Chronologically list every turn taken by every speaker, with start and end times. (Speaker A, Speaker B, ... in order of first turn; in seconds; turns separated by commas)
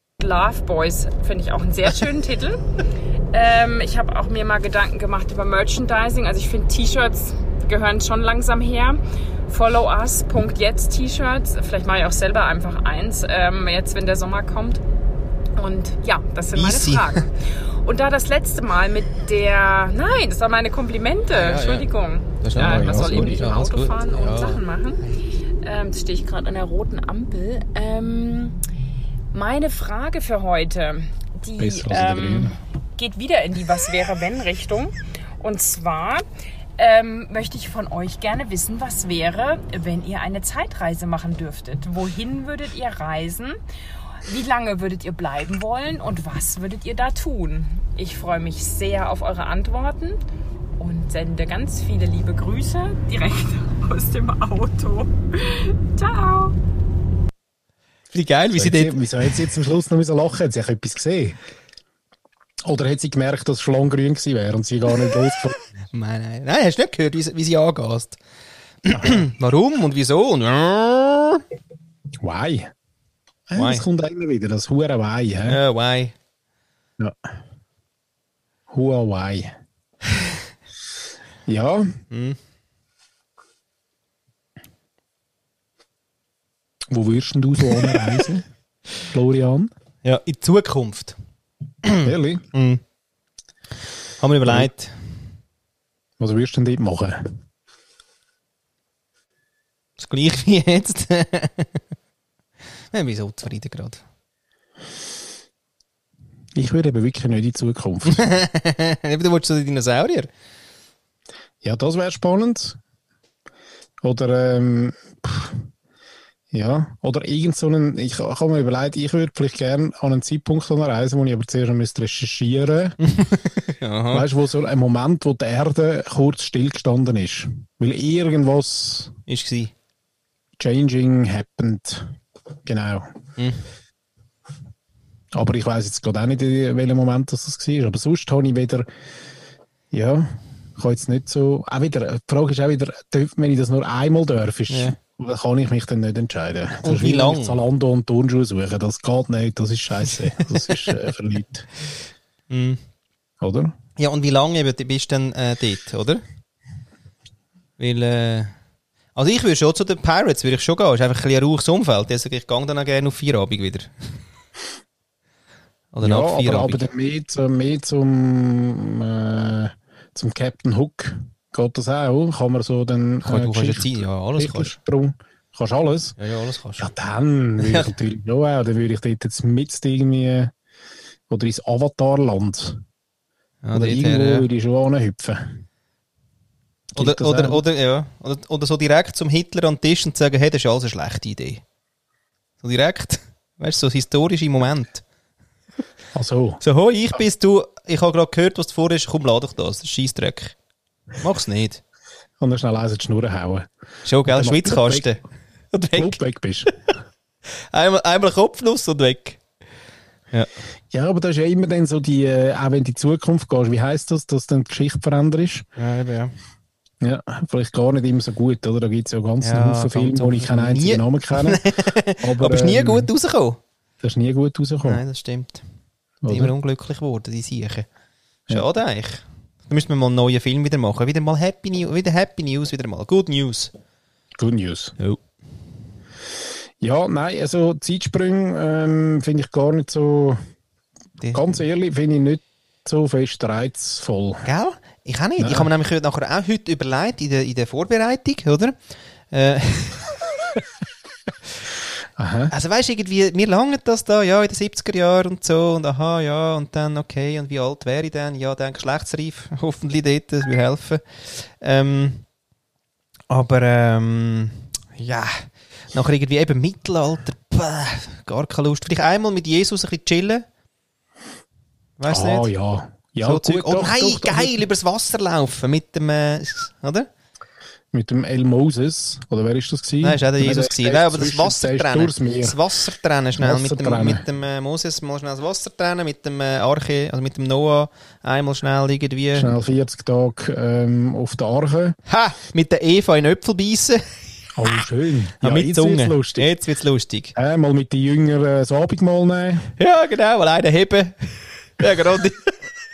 Speaker A: 0.2-2.6, Speaker A: 3.3-14.8, Speaker A: 15.6-25.0, Speaker B: 16.6-17.3, Speaker B: 21.3-21.9, Speaker B: 22.4-24.6, Speaker C: 22.6-23.4, Speaker A: 25.6-28.6, Speaker A: 29.3-36.2, Speaker C: 31.6-32.6, Speaker A: 36.8-43.6, Speaker A: 44.2-50.2, Speaker A: 50.8-56.5, Speaker B: 58.1-59.4, Speaker C: 58.5-61.4, Speaker C: 62.6-65.6, Speaker B: 65.9-68.2, Speaker B: 68.8-71.4, Speaker C: 68.9-69.2, Speaker C: 72.2-72.7, Speaker C: 73.5-75.6, Speaker B: 73.5-73.9, Speaker B: 75.5-76.2, Speaker C: 77.0-77.3, Speaker C: 78.7-79.5, Speaker C: 81.5-82.0, Speaker B: 82.1-82.4, Speaker C: 86.9-88.5, Speaker C: 89.1-89.7, Speaker B: 90.0-91.2, Speaker B: 91.8-92.8, Speaker C: 92.0-92.5, Speaker B: 94.2-94.9, Speaker C: 94.5-94.7, Speaker C: 96.2-97.4, Speaker B: 100.0-101.8, Speaker B: 102.9-104.0, Speaker C: 106.5-108.2, Speaker B: 108.1-110.3, Speaker C: 111.6-112.8, Speaker C: 114.0-115.7, Speaker C: 116.5-123.0, Speaker B: 123.0-124.3, Speaker C: 124.1-129.2, Speaker B: 129.3-129.7, Speaker C: 130.6-132.1, Speaker C: 132.7-133.1, Speaker B: 133.4-133.6, Speaker C: 135.3-138.9, Speaker C: 139.9-151.7, Speaker B: 144.7-144.9, Speaker B: 146.8-147.6, Speaker B: 150.7-151.0, Speaker B: 152.5-152.8, Speaker C: 153.4-153.7, Speaker B: 154.0-156.2, Speaker B: 157.8-158.5, Speaker B: 159.2-163.9, Speaker B: 165.9-166.9, Speaker C: 166.0-176.2, Speaker B: 173.2-174.8, Speaker B: 176.2-176.9, Speaker C: 176.8-180.5, Speaker B: 177.6-177.9, Speaker C: 181.3-182.8, Speaker B: 183.6-184.5, Speaker C: 183.7-185.6, Speaker C: 186.9-187.6, Speaker B: 187.0-191.6, Speaker B: 192.6-195.0, Speaker C: 196.1-196.6, Speaker B: 196.6-200.6, Speaker B: 201.2-201.8, Speaker C: 202.4-203.7, Speaker B: 204.1-205.2, Speaker C: 204.3-205.1, Speaker B: 205.7-206.2, Speaker C: 205.9-206.8, Speaker B: 207.7-209.4, Speaker C: 210.9-215.7, Speaker B: 215.8-216.3, Speaker C: 217.0-221.7, Speaker B: 219.4-223.6, Speaker C: 222.2-223.1, Speaker C: 224.0-225.0, Speaker B: 224.8-225.6, Speaker C: 226.2-226.5, Speaker B: 226.3-227.9, Speaker B: 228.5-233.7, Speaker C: 234.4-234.9, Speaker C: 236.8-240.4, Speaker C: 241.3-244.5, Speaker B: 244.4-248.8, Speaker C: 245.4-245.7, Speaker B: 249.3-250.1, Speaker C: 252.2-252.5, Speaker B: 252.5-262.2, Speaker B: 263.3-270.4, Speaker B: 272.0-272.5, Speaker C: 272.1-274.6, Speaker B: 273.2-277.1, Speaker C: 277.9-282.6, Speaker B: 280.0-289.5, Speaker C: 283.4-284.2, Speaker C: 289.4-292.0, Speaker B: 292.1-294.0, Speaker C: 294.6-296.5, Speaker B: 295.4-297.4, Speaker C: 297.4-299.7, Speaker B: 299.8-302.6